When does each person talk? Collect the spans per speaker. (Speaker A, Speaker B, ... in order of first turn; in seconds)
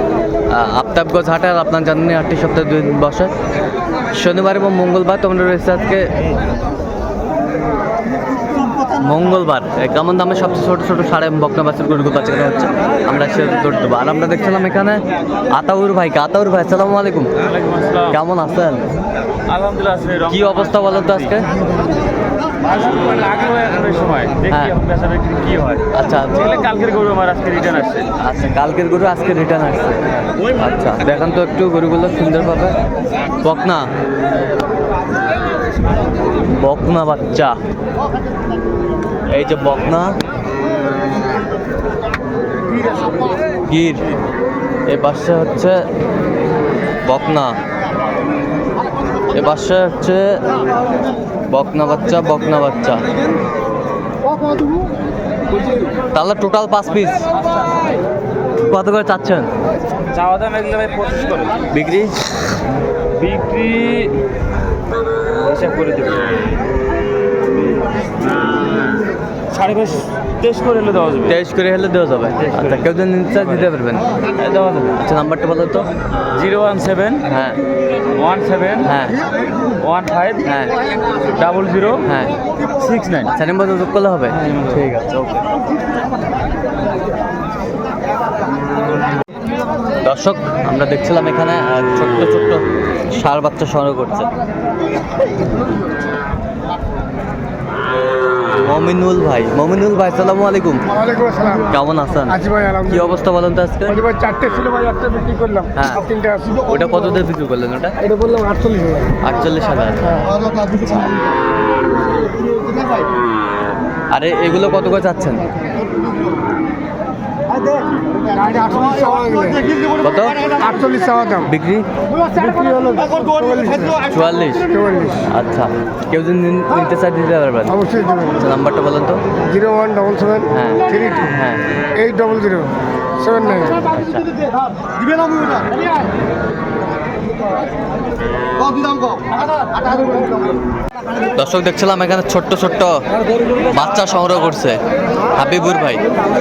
Speaker A: 0.5-3.3, 4.1-6.1, 8.9-17.3, 18.1-18.8, 20.3-21.5, 24.5-24.8, 25.9-26.6, 28.2-30.0, 30.5-32.8, 33.4-33.9, 36.5-37.6, 39.3-40.1, 43.7-44.0, 44.9-45.9, 47.0-47.5, 49.3-50.4, 51.5-53.0, 56.1-57.2, 58.7-59.5, 61.7-62.4, 71.2-74.1, 74.9-75.9, 77.2-77.6, 78.8-79.2, 80.4-80.7, 82.0-82.3, 83.2-85.4, 90.0-94.3, 98.6-100.8, 101.7-104.0, 105.7-106.0, 106.6-107.9, 109.2-110.2, 114.1-115.5, 120.0-120.4, 121.4-121.8, 124.1-124.7, 125.3-129.2, 130.5-131.6, 133.8-134.3, 141.3-143.0, 143.7-144.8, 145.3-146.0
Speaker B: 17.4-18.2, 19.5-21.4, 22.6-28.1, 60.1-61.6, 63.1-64.2, 65.3-66.2, 69.5-71.4, 72.4-73.6, 74.2-74.9, 76.3-77.2, 78.1-78.9, 79.8-80.5, 81.3-82.0, 82.8-83.3, 84.5-84.8
Speaker C: 100.9-101.7, 102.4-103.1, 104.0-106.6, 108.0-109.2, 110.3-110.8, 118.2-119.7, 120.5-121.4, 122.2-124.0, 124.7-125.3, 127.8-128.3, 129.5-131.2, 131.9-133.9